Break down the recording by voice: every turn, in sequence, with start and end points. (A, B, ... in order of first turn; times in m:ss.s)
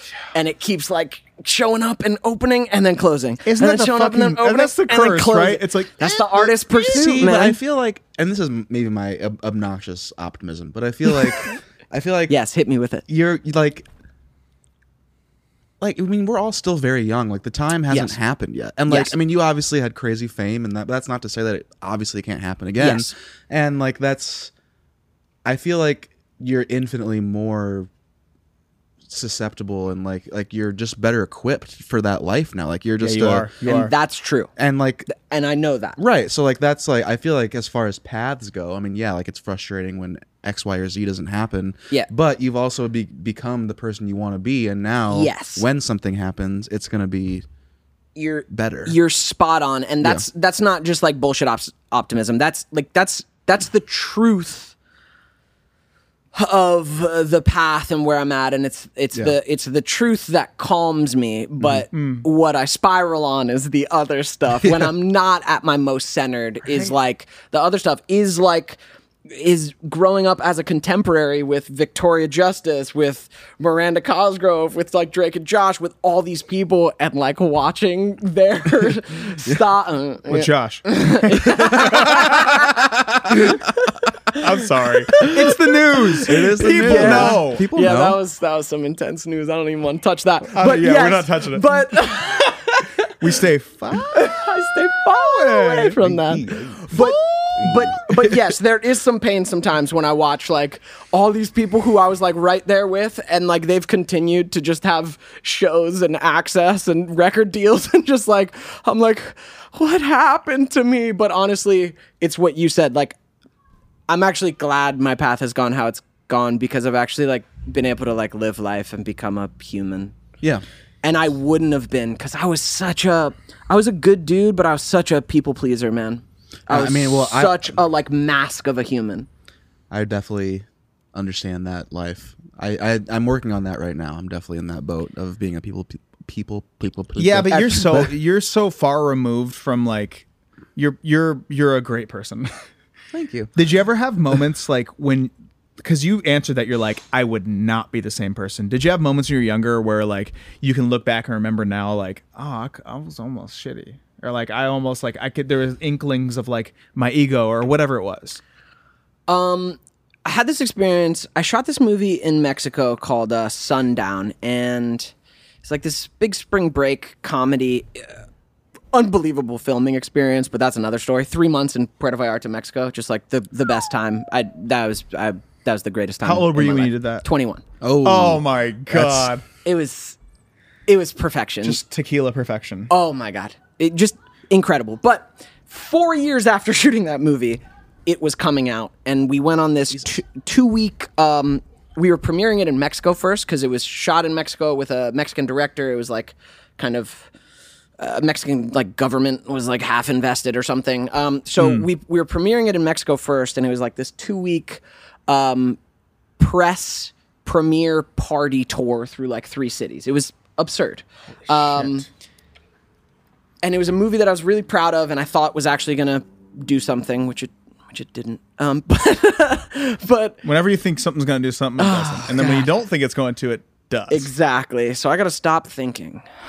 0:00.3-0:07.6 A
0:03.4-0:07.0 B
0:06.7-0:12.4 C
0:12.3-0:13.0 A
0:13.1-0:13.9 C
0:15.8-0:24.5 C
0:17.9-0:18.2 A
0:18.9-0:19.1 A
0:22.8-0:23.1 A
0:25.4-0:27.9 C
0:29.1-0:33.5 C
0:33.0-0:33.9 B
0:33.6-0:34.5 A
0:34.6-0:35.1 C
0:35.1-0:36.0 A
0:36.0-0:47.4 C
0:45.1-0:45.6 A
0:48.2-0:54.8 A
0:48.5-0:49.0 C
0:56.3-1:22.7 A
1:01.9-1:02.2 B
1:20.3-1:22.5 B
1:21.8-1:23.1 C
1:23.3-1:23.6 A
1:24.4-1:27.7 B
1:25.2-1:25.5 A
1:26.3-1:28.2 C
1:26.3-1:33.1 A
1:30.5-1:31.8 B
1:33.2-1:34.4 B
1:34.1-1:53.2 A
1:35.2-1:36.0 B
1:36.0-1:38.2 C
1:36.9-1:37.2 B
1:54.1-2:00.1 A
2:01.0-2:09.3 A
2:06.7-2:07.8 C
2:09.9-2:18.1 C
2:17.2-2:22.5 B
2:23.1-2:23.5 C
2:23.6-2:38.4 B
2:39.3-2:45.1 A
2:45.6-2:48.2 A
2:48.9-2:57.6 A
2:56.2-2:57.2 B
2:57.8-2:59.3 C
2:58.0-2:59.4 B
2:59.6-3:00.2 A
3:00.9-3:01.8 A
3:01.6-3:02.9 B
3:02.9-3:17.3 A
3:18.0-3:25.8 A
3:21.6-3:21.9 B
3:26.4-3:32.1 A
3:31.5-3:31.9 B
3:33.6-3:40.4 A
3:40.4-3:44.3 B
3:41.8-3:42.7 A
3:44.1-3:46.2 A